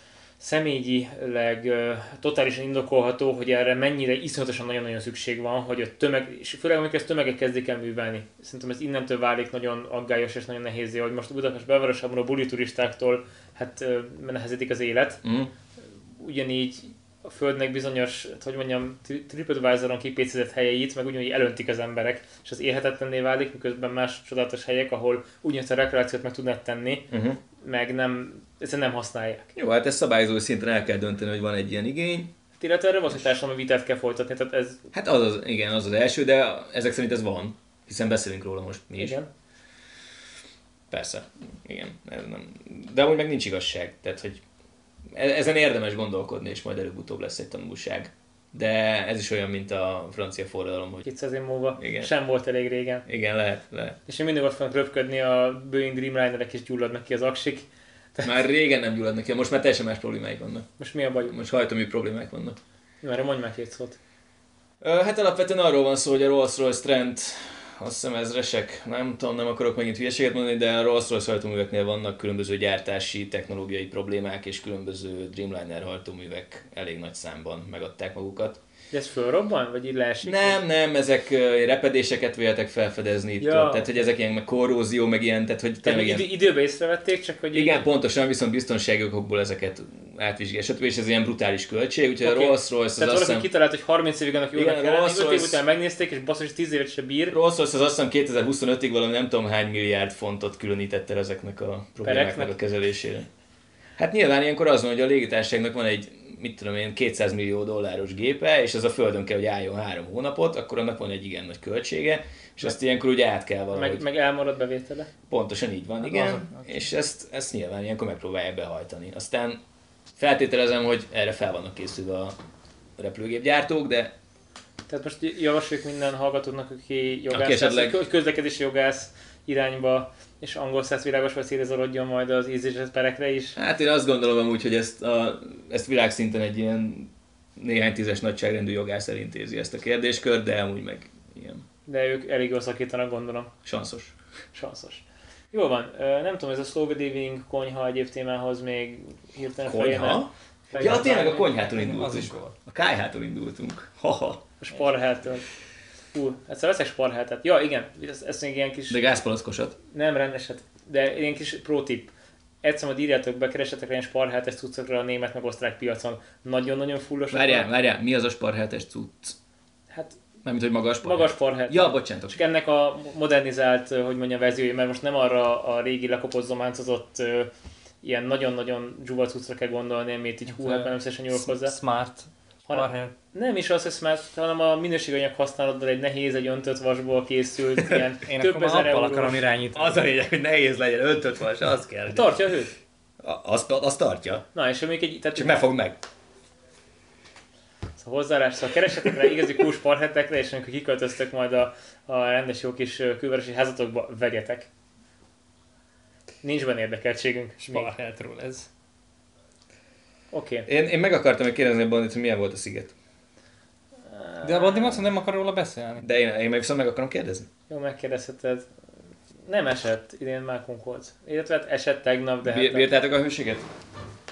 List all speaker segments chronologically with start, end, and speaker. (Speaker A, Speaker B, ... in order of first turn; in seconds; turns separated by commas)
Speaker A: 0.4-15.2, Speaker B: 15.2-15.5, Speaker A: 16.2-29.5, Speaker B: 27.1-27.4, Speaker B: 29.6-32.3, Speaker A: 32.6-34.9, Speaker B: 34.9-39.2, Speaker A: 39.0-39.3, Speaker B: 40.9-44.4, Speaker B: 45.1-51.1, Speaker A: 51.0-53.0, Speaker B: 51.8-52.1, Speaker B: 53.0-54.0, Speaker A: 54.0-58.4, Speaker B: 58.2-60.7, Speaker A: 60.8-61.3, Speaker B: 61.3-62.5, Speaker A: 63.0-64.0, Speaker B: 64.8-78.6, Speaker A: 78.9-80.6, Speaker B: 80.2-86.3, Speaker A: 83.4-84.0, Speaker A: 85.8-87.8, Speaker B: 87.5-93.5, Speaker A: 92.2-97.3, Speaker B: 94.5-95.6, Speaker B: 97.3-103.3, Speaker A: 102.0-102.5, Speaker B: 104.0-114.0, Speaker A: 113.7-115.1, Speaker B: 115.3-119.6, Speaker C: 116.0-116.7, Speaker B: 120.2-122.3, Speaker B: 123.0-124.1, Speaker A: 124.9-133.6, Speaker B: 127.3-128.0, Speaker B: 133.6-141.6, Speaker A: 141.8-143.5, Speaker B: 143.6-144.1, Speaker A: 144.5-151.4, Speaker B: 149.6-154.4, Speaker C: 150.8-152.5, Speaker A: 154.6-155.4, Speaker A: 156.1-159.0, Speaker B: 158.9-159.8, Speaker A: 159.9-162.1, Speaker A: 162.6-167.7, Speaker B: 167.3-169.3, Speaker A: 169.9-170.2, Speaker B: 170.4-172.4, Speaker A: 171.0-177.5, Speaker A: 178.0-181.8, Speaker C: 180.5-183.1, Speaker A: 182.7-189.4, Speaker C: 188.3-190.0, Speaker B: 189.7-192.3, Speaker A: 192.1-192.7, Speaker B: 193.2-194.4, Speaker A: 194.5-195.6, Speaker B: 195.3-196.0, Speaker A: 198.0-204.7, Speaker A: 206.4-207.9, Speaker C: 207.6-208.7, Speaker A: 210.3-210.7, Speaker B: 210.7-212.9, Speaker A: 214.1-215.1, Speaker C: 214.4-216.0, Speaker B: 216.0-217.5, Speaker A: 217.7-218.7, Speaker A: 219.4-222.9, Speaker B: 222.4-223.7